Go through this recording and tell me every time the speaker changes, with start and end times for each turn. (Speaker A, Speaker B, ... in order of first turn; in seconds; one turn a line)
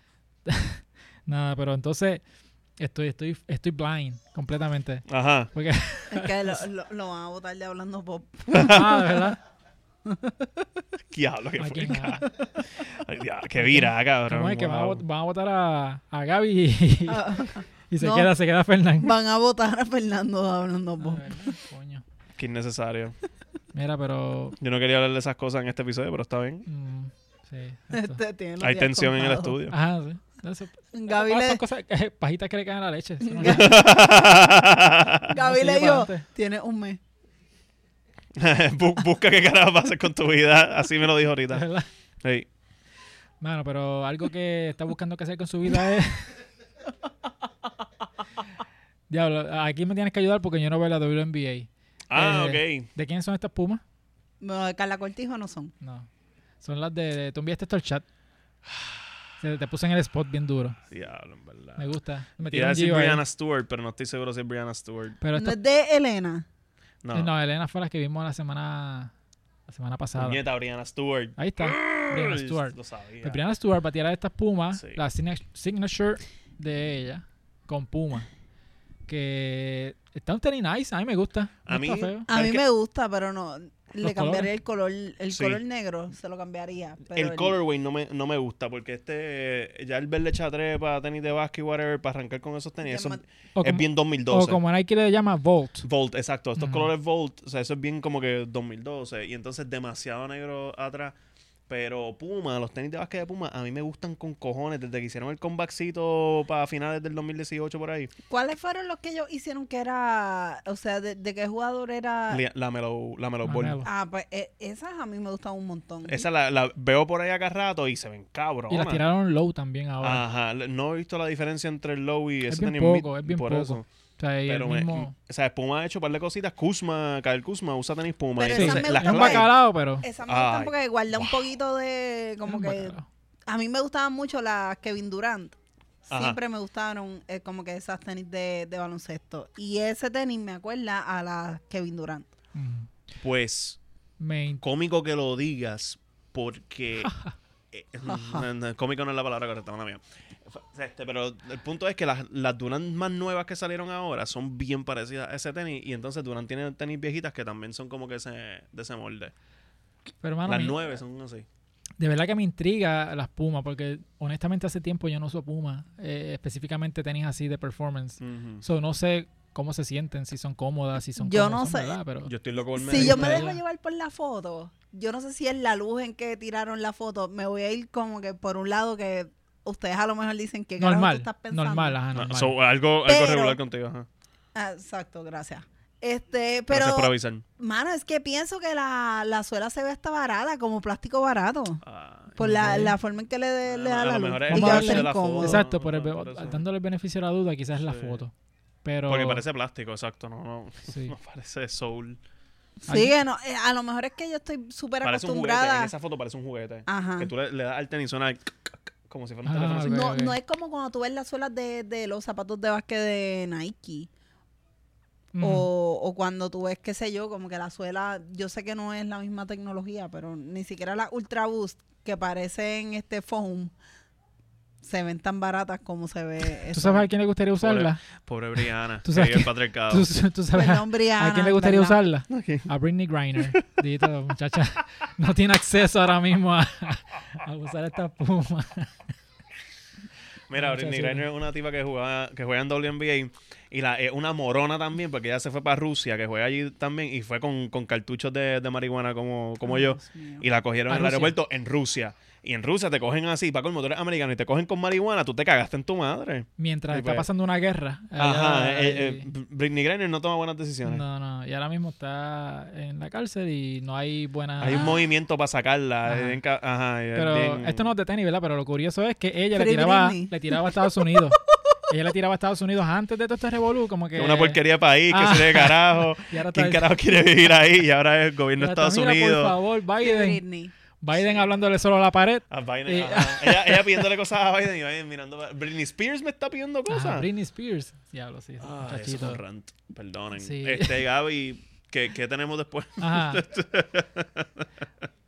Speaker A: 0.5-2.2
Speaker A: 2.8-6.6
Speaker B: 5.1-5.5
Speaker C: 6.1-9.0
Speaker B: 8.5-8.9
Speaker A: 8.6-9.4
Speaker C: 10.1-10.7
Speaker B: 11.1-15.0
Speaker A: 11.6-12.3
Speaker A: 13.6-19.1
Speaker C: 17.1-18.3
Speaker C: 19.0-21.6
Speaker A: 21.0-22.1
Speaker B: 22.4-23.2
Speaker A: 23.7-24.6
Speaker B: 24.6-26.7
Speaker A: 26.7-28.2
Speaker C: 27.9-29.6
Speaker B: 28.6-29.8
Speaker A: 29.7-33.6
Speaker C: 30.9-31.6
Speaker C: 33.2-33.7
Speaker B: 33.4-35.3
Speaker C: 35.3-37.0
Speaker A: 35.3-36.2
Speaker B: 38.4-41.6
Speaker A: 41.5-41.9
Speaker A: 43.4-46.4
Speaker A: 49.1-53.8
Speaker B: 52.1-52.9
Speaker C: 54.4-55.7
Speaker A: 55.8-56.1
Speaker A: 56.6-58.0
Speaker B: 58.7-59.0
Speaker A: 59.4-60.8
Speaker B: 60.9-61.9
Speaker A: 61.8-63.2
Speaker B: 62.5-65.2
Speaker A: 65.2-65.6
Speaker C: 65.3-66.5
Speaker B: 67.0-67.3
Speaker A: 67.1-69.1
Speaker A: 69.7-70.4
Speaker B: 70.2-73.4
Speaker A: 71.4-78.3
Speaker A: 79.1-82.3
Speaker B: 81.7-82.6
Speaker C: 82.3-87.6
Speaker A: 84.0-84.5
Speaker B: 85.3-85.6
Speaker B: 87.1-94.6
Speaker C: 92.8-93.2
Speaker A: 93.6-95.8
Speaker B: 95.8-101.2
Speaker A: 96.6-96.9
Speaker B: 101.7-108.1
Speaker C: 108.3-112.4
Speaker B: 112.3-113.8
Speaker A: 113.5-113.9
Speaker C: 113.8-116.3
Speaker B: 116.0-119.0
Speaker A: 118.7-120.2
Speaker B: 120.0-123.9
Speaker A: 122.5-125.1
Speaker B: 124.5-129.5
Speaker C: 128.4-129.5
Speaker A: 128.5-130.0
Speaker C: 130.0-133.0
Speaker B: 130.3-131.5
Speaker A: 132.4-133.1
Speaker C: 133.5-135.6
Speaker B: 136.1-136.4
Speaker C: 136.1-142.3
Speaker A: 142.6-142.9
Speaker B: 143.2-143.8
Speaker A: 144.2-144.6
Speaker B: 144.6-147.1
Speaker A: 147.0-147.3
Speaker B: 147.7-159.3
Speaker C: 148.1-148.4
Speaker A: 160.2-160.8
Speaker B: 160.5-161.4
Speaker A: 162.0-172.3
Speaker B: 168.2-168.6
Speaker C: 171.2-172.0
Speaker B: 172.3-173.5
Speaker C: 172.8-182.0
Speaker A: 172.9-173.6
Speaker A: 180.8-182.6
Speaker B: 182.1-184.1
Speaker C: 183.1-183.6
Speaker C: 184.5-191.8
Speaker B: 186.7-187.4
Speaker B: 191.8-192.9
Speaker C: 192.3-195.6
Speaker A: 192.4-192.9
Speaker B: 193.6-196.6
Speaker A: 194.5-198.3
Speaker B: 197.8-198.2
Speaker A: 198.8-199.4
Speaker B: 199.1-202.2
Speaker A: 200.9-201.2
Speaker C: 202.8-205.9
Speaker A: 202.9-203.2
Speaker B: 205.0-210.0
Speaker C: 206.9-207.3
Speaker A: 209.5-210.4
Speaker C: 209.8-214.1
Speaker A: 215.3-215.7
Speaker C: 215.4-223.7
Speaker C: 224.8-227.1
Speaker A: 226.7-228.0
Speaker B: 227.6-230.1
Speaker A: 229.0-239.0
Speaker C: 230.5-232.0
Speaker B: 232.3-232.7
Speaker B: 240.5-257.3
Speaker A: 240.6-241.3
Speaker C: 249.7-250.4
Speaker A: 250.9-251.3
Speaker A: 256.6-259.3
Speaker B: 258.2-261.0
Speaker A: 260.9-265.0
Speaker B: 264.6-267.9
Speaker C: 264.7-265.1
Speaker A: 266.1-266.4
Speaker A: 267.1-274.6
Speaker C: 269.5-270.8
Speaker B: 274.2-279.6
Speaker A: 275.1-276.9
Speaker A: 278.6-280.4
Speaker C: 280.0-280.7
Speaker A: 281.0-284.1
Speaker B: 281.1-281.5
Speaker B: 282.5-287.3
Speaker A: 286.9-289.4
Speaker B: 288.6-294.6
Speaker A: 290.4-291.0
Speaker A: 293.0-293.4